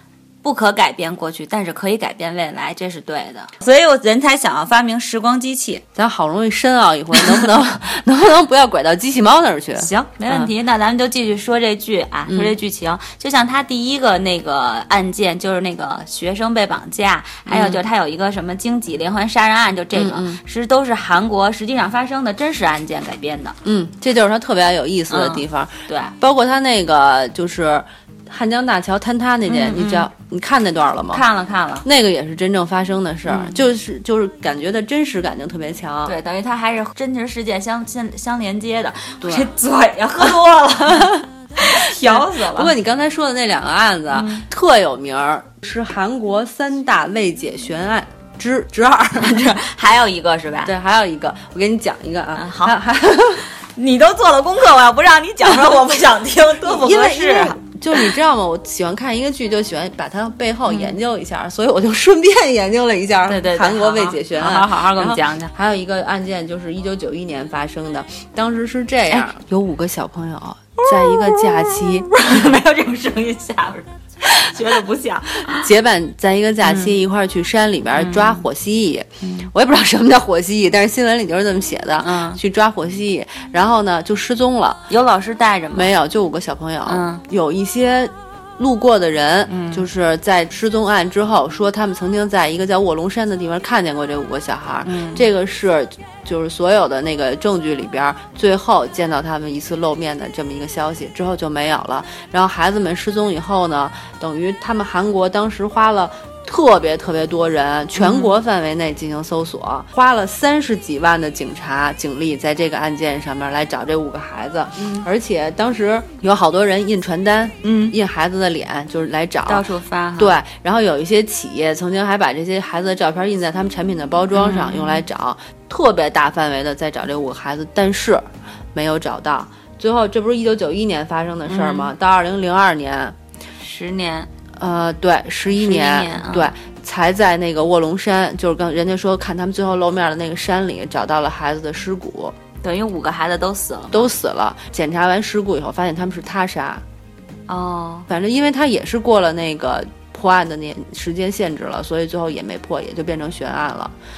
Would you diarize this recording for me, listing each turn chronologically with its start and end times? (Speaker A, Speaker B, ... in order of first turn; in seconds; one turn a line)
Speaker A: 0.4-5.8
Speaker B: 6.0-10.5
Speaker A: 9.8-23.6
Speaker B: 12.3-12.6
Speaker B: 17.5-17.8
Speaker B: 19.9-20.4
Speaker B: 23.6-31.2
Speaker A: 25.1-26.1
Speaker A: 29.5-30.1
Speaker A: 31.1-31.9
Speaker B: 31.8-36.1
Speaker A: 33.3-33.6
Speaker A: 36.1-42.7
Speaker B: 39.2-39.5
Speaker B: 40.9-41.2
Speaker B: 42.0-49.6
Speaker A: 44.1-44.5
Speaker A: 49.2-50.7
Speaker B: 50.6-53.4
Speaker A: 52.4-52.8
Speaker A: 53.4-58.1
Speaker B: 56.6-72.1
Speaker A: 60.7-61.0
Speaker A: 63.3-65.5
Speaker A: 70.9-75.6
Speaker B: 75.5-84.9
Speaker A: 76.6-76.9
Speaker A: 78.0-78.5
Speaker A: 79.2-79.5
Speaker A: 82.0-82.4
Speaker A: 84.9-85.9
Speaker B: 85.7-119.7
Speaker A: 86.9-87.2
Speaker A: 89.5-89.9
Speaker A: 94.8-95.2
Speaker A: 108.0-108.3
Speaker A: 114.8-115.1
Speaker A: 117.6-118.0
Speaker A: 119.5-120.3
Speaker B: 120.2-133.2
Speaker A: 124.3-125.0
Speaker A: 131.5-131.9
Speaker A: 133.6-134.3
Speaker B: 134.6-142.3
Speaker A: 135.6-136.5
Speaker A: 142.6-144.1
Speaker B: 143.9-146.8
Speaker A: 147.5-148.1
Speaker B: 148.1-153.9